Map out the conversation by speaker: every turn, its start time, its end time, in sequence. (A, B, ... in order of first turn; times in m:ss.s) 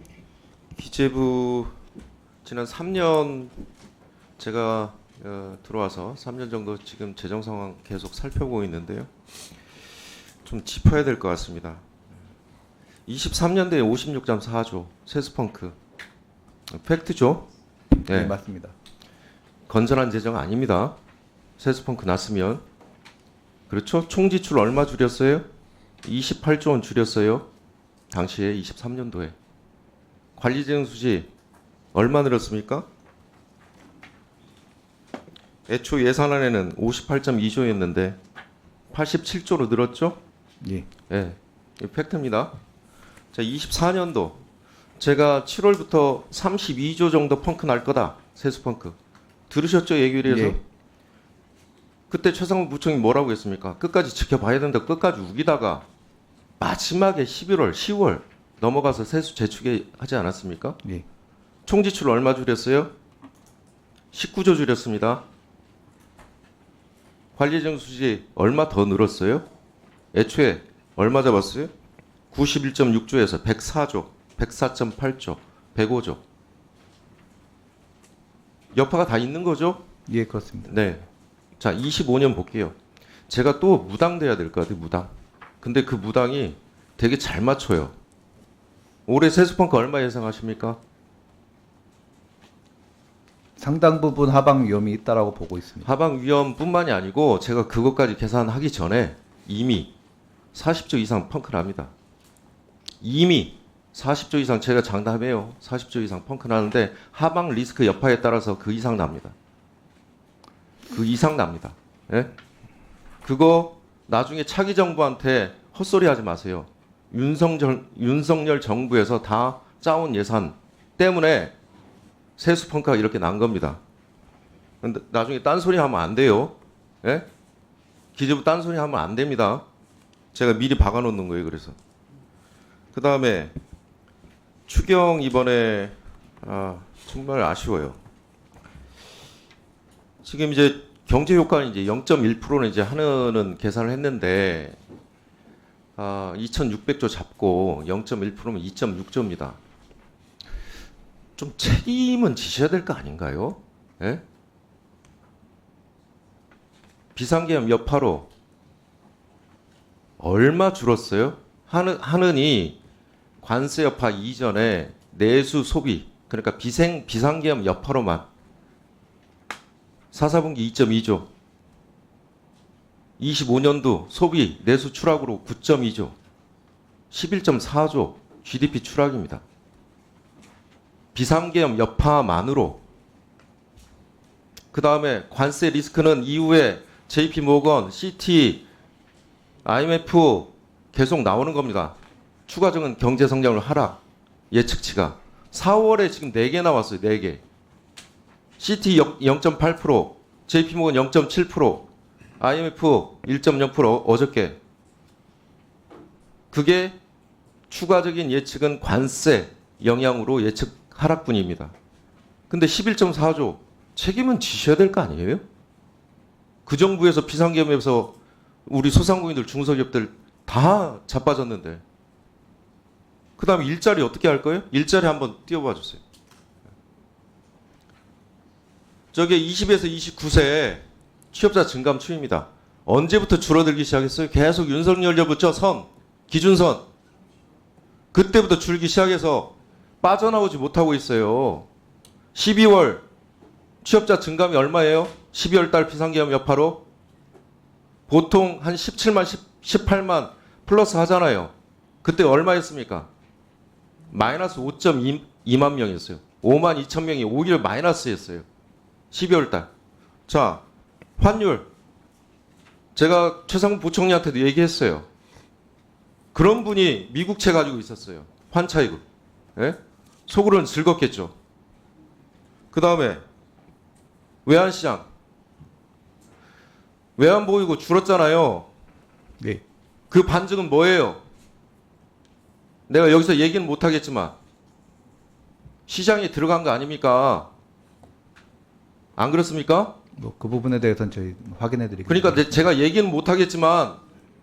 0:00.8-0:01.8 A
0:02.4-0:03.5 A
0:04.4-0:09.1 A
0:10.4-0:11.8 A
0:13.1-0:15.8 A
0:16.7-0:17.5 A
0:18.0-0:18.7 B
0:18.1-0:18.4 A
0:19.7-0:21.0 A
0:21.6-0:22.6 A
0:23.7-0:25.5 A
0:26.0-0:27.5 A
0:28.1-0:29.3 A
0:30.4-0:31.3 A
0:31.9-0:32.9 A
0:35.7-0:38.2 A
0:38.9-0:40.2 A
0:40.6-0:40.9 B
0:41.1-0:42.6 A
0:43.3-0:44.4 A
0:45.0-0:49.0 A
0:49.5-0:50.6 A
0:50.2-0:50.6 B
0:52.1-0:55.9 A
0:56.6-1:00.8 A
1:01.7-1:02.9 A
1:04.1-1:05.2 A
1:07.4-1:09.5 A
1:10.1-1:11.7 A
1:12.3-1:16.2 A
1:18.7-1:19.8 A
1:20.1-1:20.8 B
1:20.7-1:21.1 A
1:21.6-1:22.8 A
1:23.3-1:25.1 A
1:25.6-1:28.0 A
1:29.1-1:30.8 A
1:33.6-1:35.9 B
1:35.8-1:39.9 A
1:40.5-1:41.9 A
1:43.0-1:49.4 A
1:50.9-1:52.3 A
1:53.2-2:01.6 A
2:02.4-2:03.8 A
2:04.8-2:07.3 A
2:08.2-2:09.6 A
2:10.3-2:11.8 A
2:12.9-2:13.6 A
2:14.7-2:18.0 A
2:20.2-2:24.8 A
2:26.0-2:29.6 A
2:31.4-2:34.2 A
2:37.2-2:38.3 A
2:40.2-2:42.8 A
2:43.4-2:48.3 A
2:50.1-2:51.3 A
2:53.2-2:56.2 A
2:57.1-2:59.4 A
3:01.1-3:02.8 A
3:04.7-3:08.7 A
3:09.6-3:12.0 A
3:12.5-3:14.0 A
3:14.5-3:17.4 A
3:18.6-3:24.6 A
3:26.5-3:27.0 A
3:27.7-3:31.7 A
3:32.5-3:35.4 A
3:36.7-3:38.1 A
3:38.7-3:41.8 A
3:43.4-3:46.0 A
3:49.1-3:56.8 A
3:58.1-4:01.7 A
4:02.3-4:03.0 A
4:03.8-4:06.8 A
4:08.1-4:13.1 A
4:14.1-4:18.5 A
4:19.1-4:19.7 A
4:20.3-4:20.6 A
4:21.2-4:21.7 A
4:23.0-4:25.1 A
4:26.3-4:29.0 A
4:29.6-4:31.3 A
4:32.7-4:33.2 A
4:34.4-4:35.1 A
4:37.2-4:38.7 A
4:40.1-4:41.2 A
4:42.9-4:44.4 A
4:45.9-4:47.5 A
4:49.2-4:49.9 A
4:50.2-4:52.5 B
4:52.1-4:54.0 A